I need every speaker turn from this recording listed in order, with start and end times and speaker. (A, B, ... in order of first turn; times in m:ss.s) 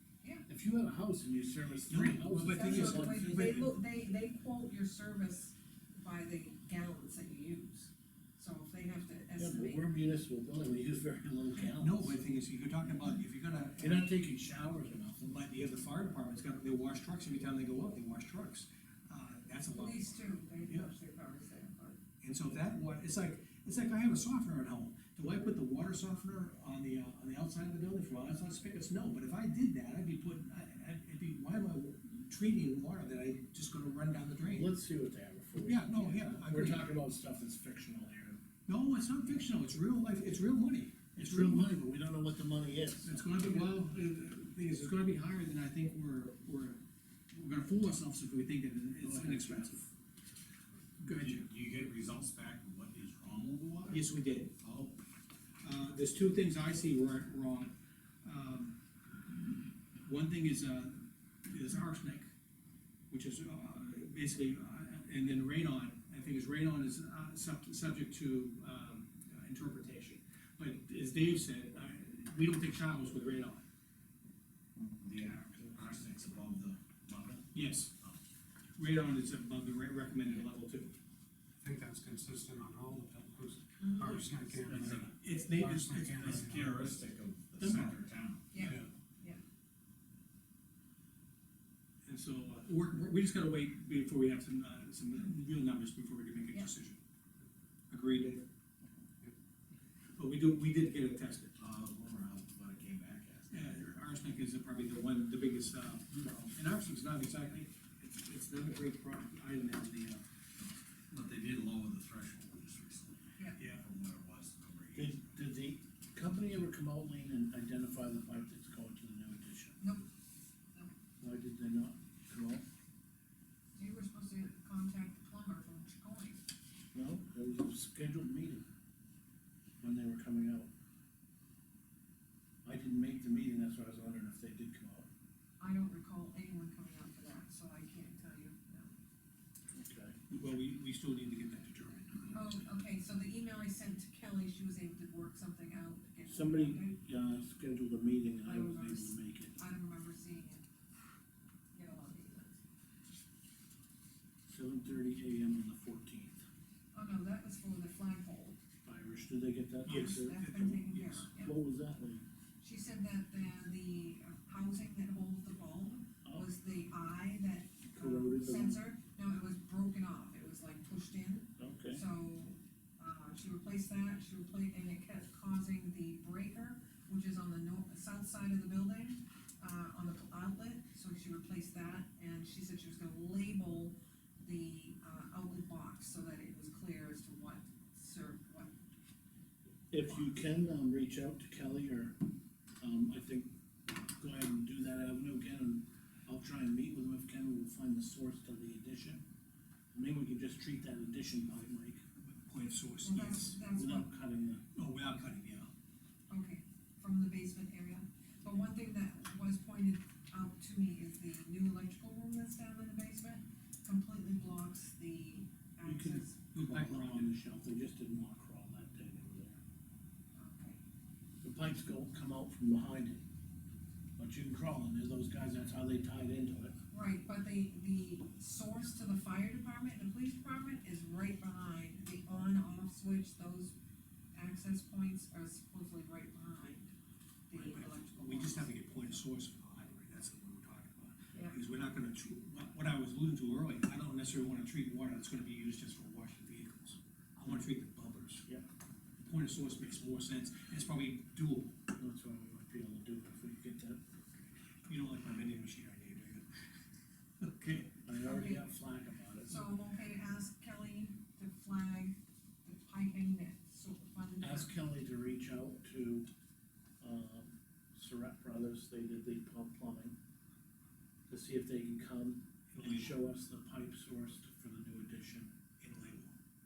0:00.5-0:03.6 A
0:01.9-0:03.7 B
0:02.4-0:09.9 C
0:09.4-0:12.2 A
0:11.7-0:14.1 B
0:13.8-0:15.3 A
0:15.2-0:20.1 B
0:19.7-0:22.0 C
0:22.2-0:34.7 B
0:34.5-0:38.4 A
0:35.7-0:36.9 B
0:38.7-0:41.8 B
0:41.2-0:43.7 A
0:43.0-0:46.8 B
0:47.3-0:49.9 B
0:49.0-0:49.8 A
0:51.0-0:51.5 B
0:51.1-0:55.0 D
0:53.9-0:54.6 B
0:55.6-0:57.7 B
0:58.2-0:58.8 B
1:00.0-1:02.3 B
1:03.1-1:13.6 B
1:14.8-1:17.5 D
1:17.5-1:17.9 B
1:18.8-1:21.0 B
1:21.6-1:26.8 E
1:23.8-1:24.3 C
1:24.1-1:24.6 B
1:24.6-1:25.2 D
1:25.2-1:26.4 B
1:26.0-1:28.5 D
1:27.6-1:28.0 B
1:28.5-1:29.4 C
1:28.6-1:28.9 B
1:32.0-1:37.0 B
1:37.9-1:38.4 B
1:40.2-1:41.6 B
1:41.6-1:44.0 D
1:43.5-1:50.2 B
1:50.6-1:55.2 D
1:53.6-1:53.9 B
1:54.9-1:59.8 A
2:01.2-2:02.6 A
2:03.8-2:06.4 C
2:06.9-2:08.7 A
2:09.8-2:10.7 A
2:12.6-2:15.1 A
2:15.6-2:18.9 C
2:19.7-2:20.2 A
2:20.3-2:22.7 B
2:22.3-2:26.9 C
2:26.2-2:29.6 A
2:28.4-2:30.6 C
2:31.8-2:32.6 C
2:34.5-2:36.4 A
2:36.9-2:38.6 C
2:38.8-2:40.6 A
2:39.9-2:41.3 B
2:39.9-2:41.6 C
2:41.4-2:42.2 A
2:42.6-3:08.7 C
2:47.9-2:48.8 A
2:51.6-2:52.0 A
3:09.9-3:12.2 A
3:12.8-3:13.5 A
3:14.2-3:19.2 A
3:19.9-3:22.0 A
3:22.2-3:23.6 B
3:23.0-3:24.1 C
3:23.6-3:24.6 A
3:24.8-3:25.7 B
3:26.3-3:36.4 C
3:35.8-3:39.6 A
3:36.5-3:37.4 B
3:40.4-3:40.8 C
3:41.4-3:43.2 A
3:44.2-3:46.8 A
3:46.9-3:53.8 C
3:54.3-3:56.9 C
3:57.5-3:58.8 C
3:57.5-4:08.4 B
4:09.2-4:11.8 B
4:12.0-4:14.0 A
4:14.8-4:16.5 B
4:17.4-4:17.9 B
4:18.0-4:19.7 A
4:18.2-4:18.7 C
4:19.5-4:24.7 C
4:24.4-4:26.3 A
4:27.0-4:30.2 A
4:31.3-4:35.5 A
4:32.7-4:33.2 B
4:35.8-4:36.4 B